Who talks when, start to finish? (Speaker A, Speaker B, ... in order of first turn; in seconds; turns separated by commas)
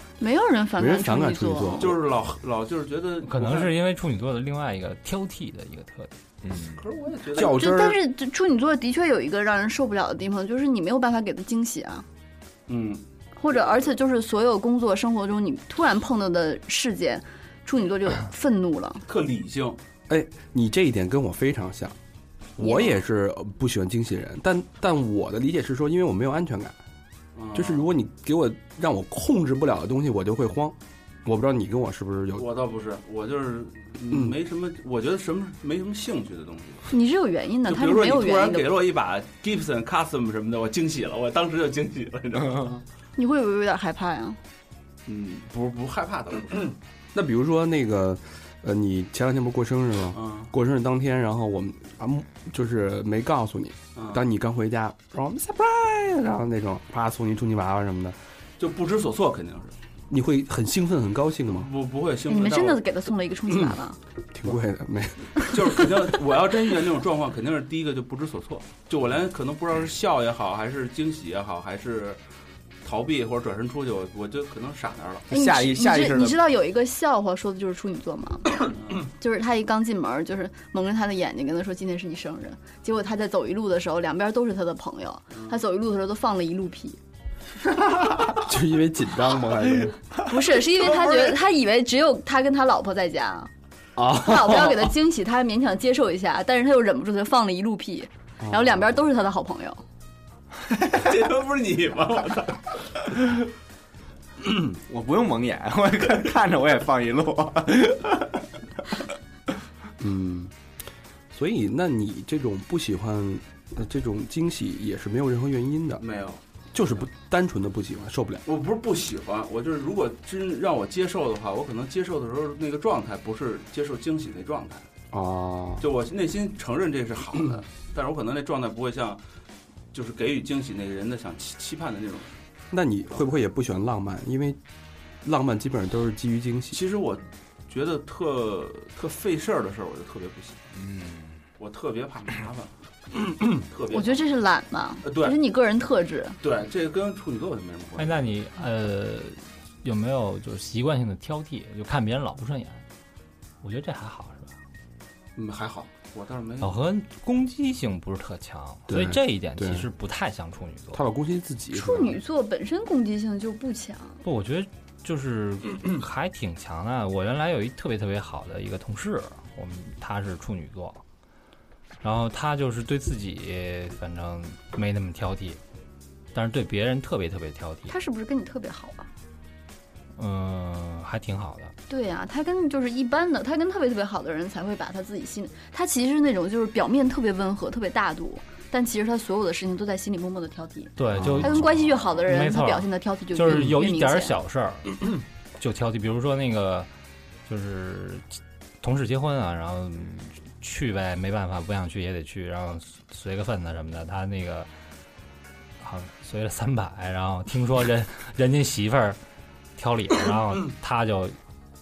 Speaker A: 0.2-1.9, Speaker B: 0.8-2.0, Speaker C: 1.8-3.7, Speaker D: 3.2-6.1, Speaker E: 6.4-6.8, Speaker C: 6.8-7.6, Speaker B: 7.3-8.0, Speaker A: 7.4-12.1, Speaker C: 12.7-13.9, Speaker A: 13.4-19.0, Speaker C: 19.1-19.8, Speaker B: 20.1-22.0, Speaker B: 22.6-26.8, Speaker C: 22.6-22.9, Speaker C: 27.4-27.9, Speaker B: 27.5-32.5, Speaker C: 32.4-36.9, Speaker B: 34.1-34.4, Speaker A: 36.9-38.7, Speaker C: 37.6-42.8, Speaker A: 43.2-44.4, Speaker C: 45.1-46.8, Speaker B: 47.1-58.2, Speaker C: 50.1-50.5, Speaker C: 54.0-54.2, Speaker C: 58.6-59.8, Speaker B: 60.1-61.7, Speaker C: 61.5-62.8, Speaker A: 62.3-64.0, Speaker B: 63.5-63.8, Speaker B: 64.3-65.9, Speaker C: 65.5-72.2, Speaker C: 72.8-75.3, Speaker E: 75.3-76.4, Speaker A: 75.3-87.0, Speaker B: 88.4-90.0, Speaker A: 90.3-93.5, Speaker B: 94.0-94.9, Speaker A: 94.1-99.8, Speaker B: 98.4-98.8, Speaker C: 100.8-103.3, Speaker E: 104.8-108.4, Speaker B: 110.0-110.5, Speaker B: 111.3-116.0, Speaker C: 116.0-116.4, Speaker B: 116.7-118.4, Speaker C: 118.5-124.9, Speaker B: 125.1-125.9, Speaker C: 125.8-129.2, Speaker C: 129.9-132.3, Speaker B: 132.7-134.6, Speaker B: 135.2-136.8, Speaker C: 136.7-140.6, Speaker E: 140.8-141.4, Speaker C: 141.6-142.8, Speaker C: 143.5-144.3, Speaker A: 143.9-146.4, Speaker C: 145.0-145.4, Speaker C: 146.4-148.3, Speaker D: 148.0-152.8, Speaker D: 153.6-154.5, Speaker C: 155.4-156.8, Speaker D: 156.6-161.0, Speaker B: 158.9-159.9, Speaker B: 160.9-162.2, Speaker A: 161.7-164.2, Speaker D: 164.2-171.0, Speaker D: 172.0-175.6, Speaker D: 176.3-177.9, Speaker A: 177.9-179.1, Speaker D: 180.2-181.7, Speaker A: 181.9-194.4, Speaker D: 191.0-196.9, Speaker D: 197.5-198.2, Speaker D: 198.8-204.7, Speaker D: 205.8-209.2, Speaker D: 209.8-211.4